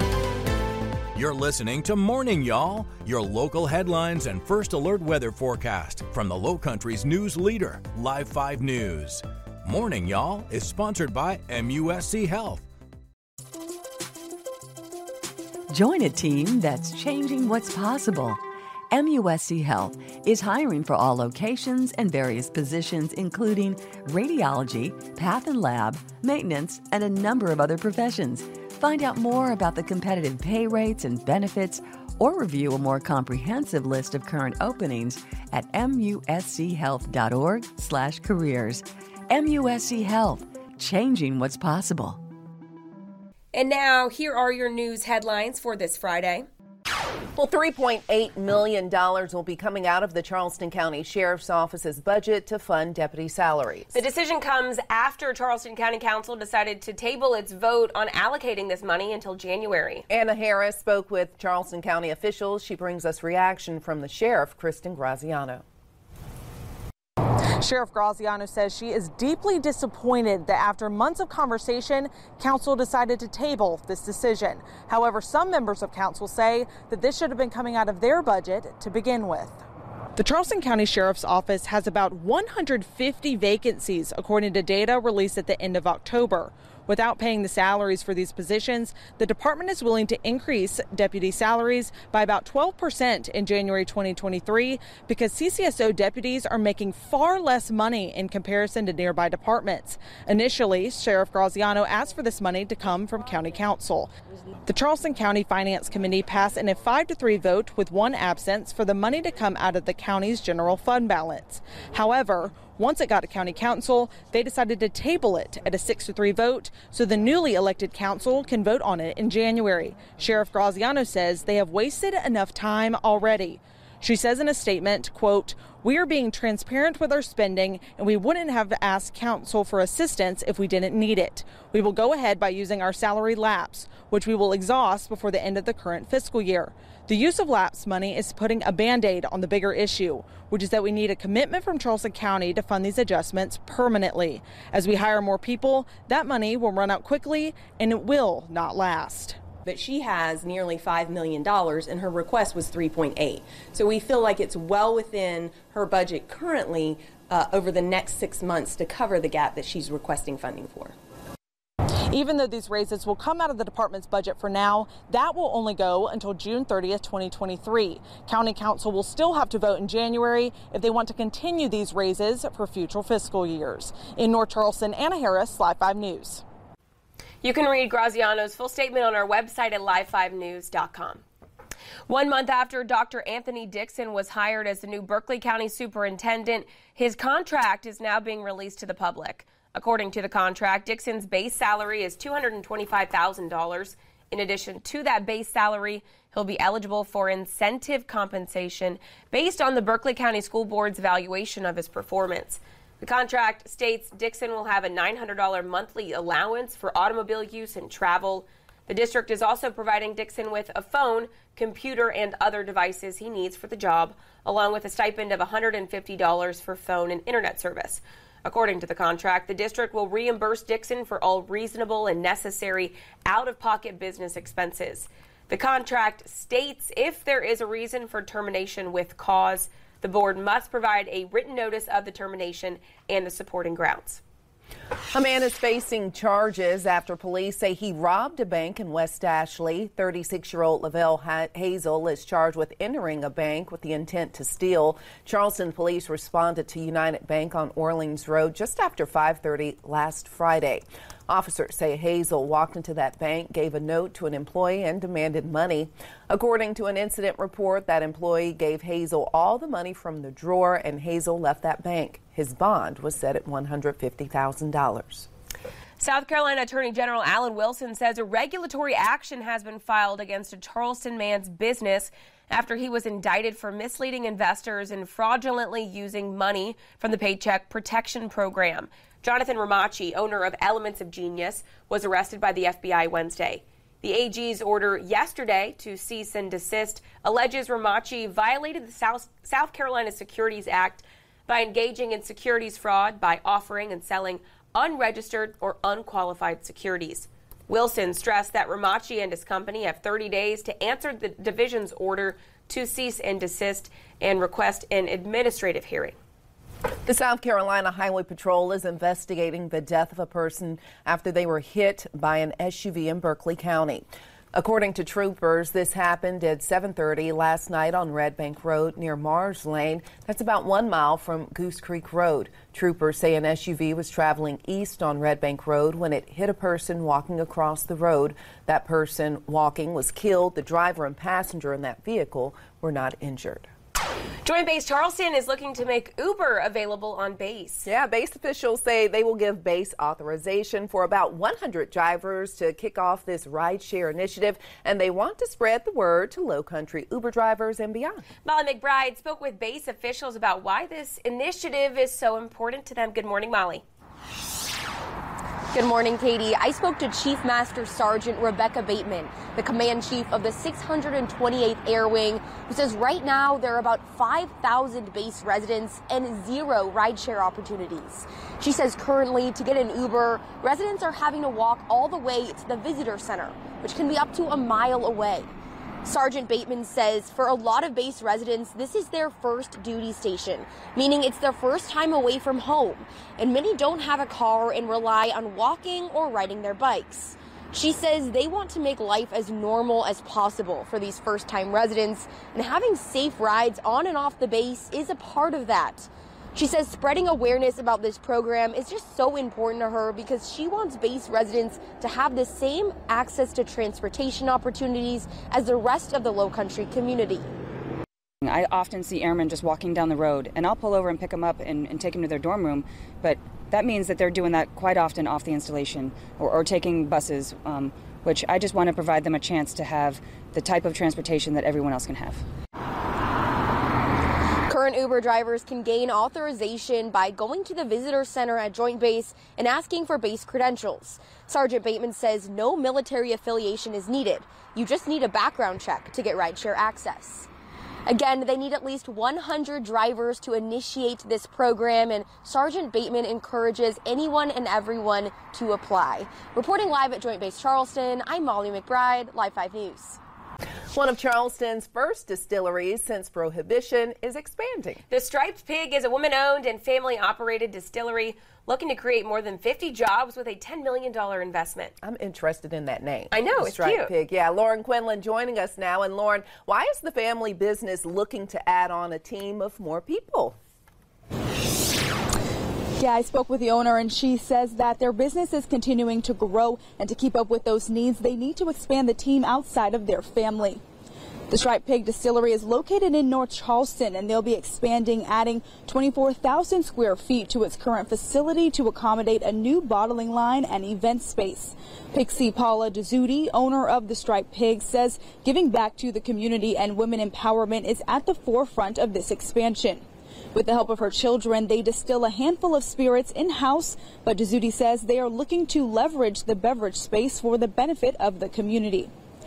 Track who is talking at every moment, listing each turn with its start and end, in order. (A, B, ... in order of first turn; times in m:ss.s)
0:01.1-0:12.6 A
0:15.7-0:18.4 B
0:18.9-0:42.2 B
0:43.5-0:46.4 C
0:47.4-0:54.0 D
0:53.9-1:00.0 C
1:00.1-1:05.6 D
1:07.6-1:19.6 E
1:20.2-1:44.1 E
1:44.6-2:29.4 E
2:29.6-2:40.9 F
2:42.1-2:56.4 E
2:57.4-3:01.2 C
3:02.1-3:54.2 C
3:55.1-4:25.3 D
4:26.0-5:06.2 C
5:07.1-5:33.7 D
5:34.4-5:37.9 C
5:37.8-5:48.2 D
5:48.4-5:53.8 C
5:55.7-6:15.5 G
6:16.0-6:47.5 G
6:48.4-7:02.4 H
7:04.7-7:17.5 G
7:18.1-7:30.2 G
7:30.9-7:35.0 D
7:35.1-7:41.9 C
7:42.0-7:50.6 D
7:43.3-7:44.1 C
7:53.0-8:00.8 I
8:01.5-8:20.0 I
8:20.5-8:29.1 I